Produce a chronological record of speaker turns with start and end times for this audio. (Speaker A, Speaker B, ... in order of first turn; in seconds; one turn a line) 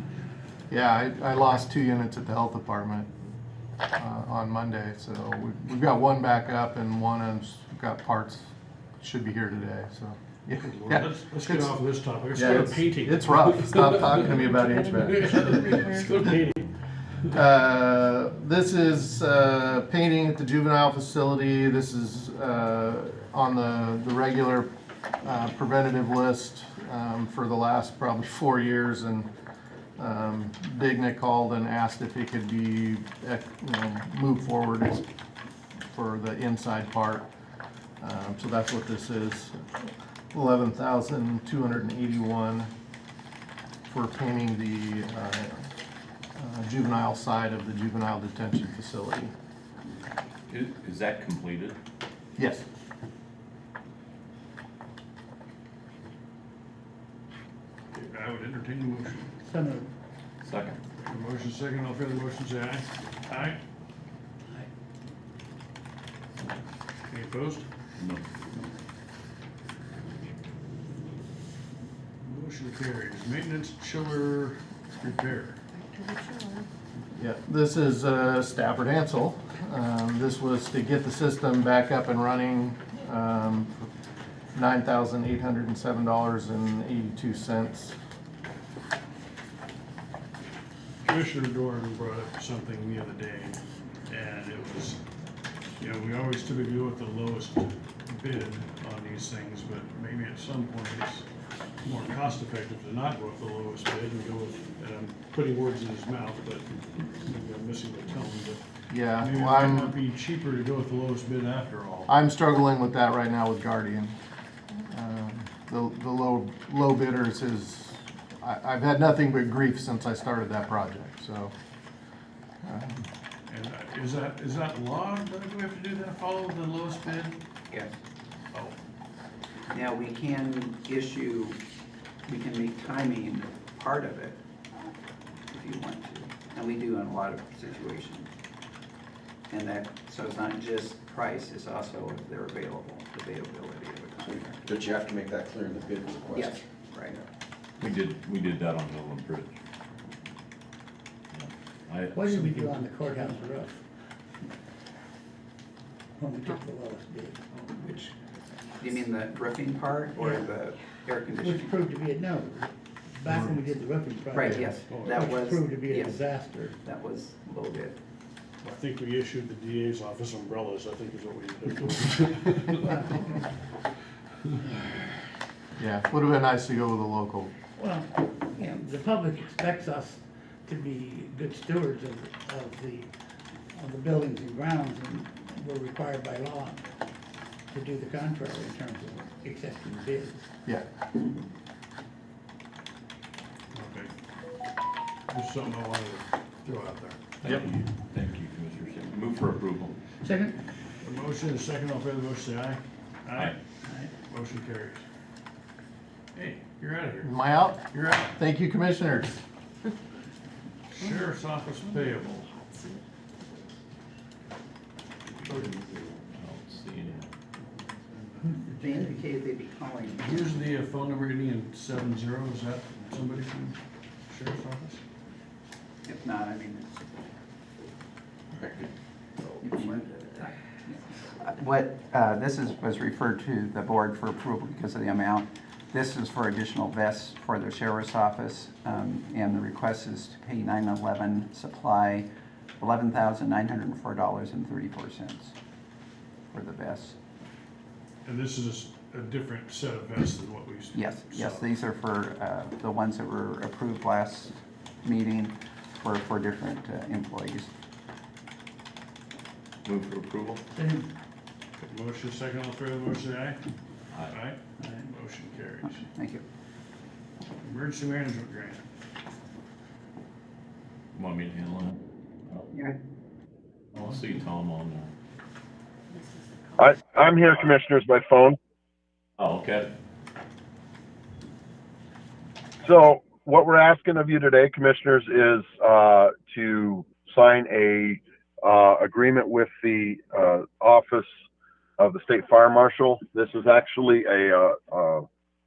Speaker A: 0.7-3.1
Speaker A: 4.0-11.8
Speaker B: 10.6-14.3
Speaker A: 12.3-15.8
Speaker B: 15.0-16.7
Speaker A: 17.3-24.7
Speaker A: 25.2-29.3
Speaker A: 30.0-35.0
Speaker A: 35.9-37.3
Speaker A: 38.0-42.7
Speaker A: 43.9-45.6
Speaker A: 46.4-49.3
Speaker C: 50.5-51.8
Speaker A: 52.4-52.6
Speaker B: 57.9-59.4
Speaker D: 59.4-59.9
Speaker C: 60.4-60.8
Speaker B: 61.0-63.6
Speaker B: 67.1-67.7
Speaker C: 68.0-68.2
Speaker B: 72.2-75.6
Speaker A: 77.1-83.9
Speaker A: 84.5-88.0
Speaker B: 91.0-95.0
Speaker B: 95.8-101.3
Speaker B: 101.8-108.6
Speaker A: 108.9-110.0
Speaker B: 109.2-112.1
Speaker A: 112.1-114.1
Speaker A: 114.8-121.5
Speaker A: 122.6-123.0
Speaker B: 123.5-127.4
Speaker E: 127.7-128.0
Speaker E: 129.7-131.6
Speaker E: 132.2-134.4
Speaker E: 135.5-138.3
Speaker E: 139.5-144.7
Speaker F: 144.6-147.2
Speaker E: 146.3-147.2
Speaker C: 147.8-149.6
Speaker C: 151.3-152.8
Speaker D: 152.1-153.8
Speaker D: 156.2-157.4
Speaker E: 157.5-158.1
Speaker E: 158.8-161.8
Speaker D: 160.2-160.5
Speaker D: 161.4-166.8
Speaker E: 164.3-166.2
Speaker B: 164.9-165.3
Speaker E: 166.8-168.0
Speaker B: 168.6-173.3
Speaker A: 175.8-177.5
Speaker D: 177.8-183.1
Speaker D: 183.7-186.8
Speaker D: 187.7-190.4
Speaker B: 193.7-194.1
Speaker B: 195.3-197.2
Speaker C: 197.4-199.9
Speaker D: 200.2-200.6
Speaker B: 201.0-203.6
Speaker B: 204.2-205.0
Speaker B: 206.3-207.3
Speaker A: 207.2-209.4
Speaker B: 207.9-208.3
Speaker B: 210.9-212.5
Speaker C: 215.5-215.8
Speaker C: 216.3-217.3
Speaker E: 218.7-220.5
Speaker B: 220.2-225.0
Speaker E: 226.1-227.1
Speaker F: 228.5-229.7
Speaker E: 229.6-242.3
Speaker E: 242.8-245.5
Speaker E: 246.5-247.2
Speaker B: 248.2-251.8
Speaker E: 250.9-257.7
Speaker C: 259.8-260.6
Speaker D: 260.8-261.1
Speaker B: 261.8-263.6
Speaker C: 264.1-264.4
Speaker B: 264.3-266.0
Speaker E: 266.0-266.4
Speaker B: 267.6-268.9
Speaker C: 271.1-272.7
Speaker E: 272.7-273.0
Speaker C: 273.9-275.1
Speaker G: 276.8-278.6
Speaker C: 279.4-279.9
Speaker G: 282.8-291.4
Speaker G: 292.0-295.3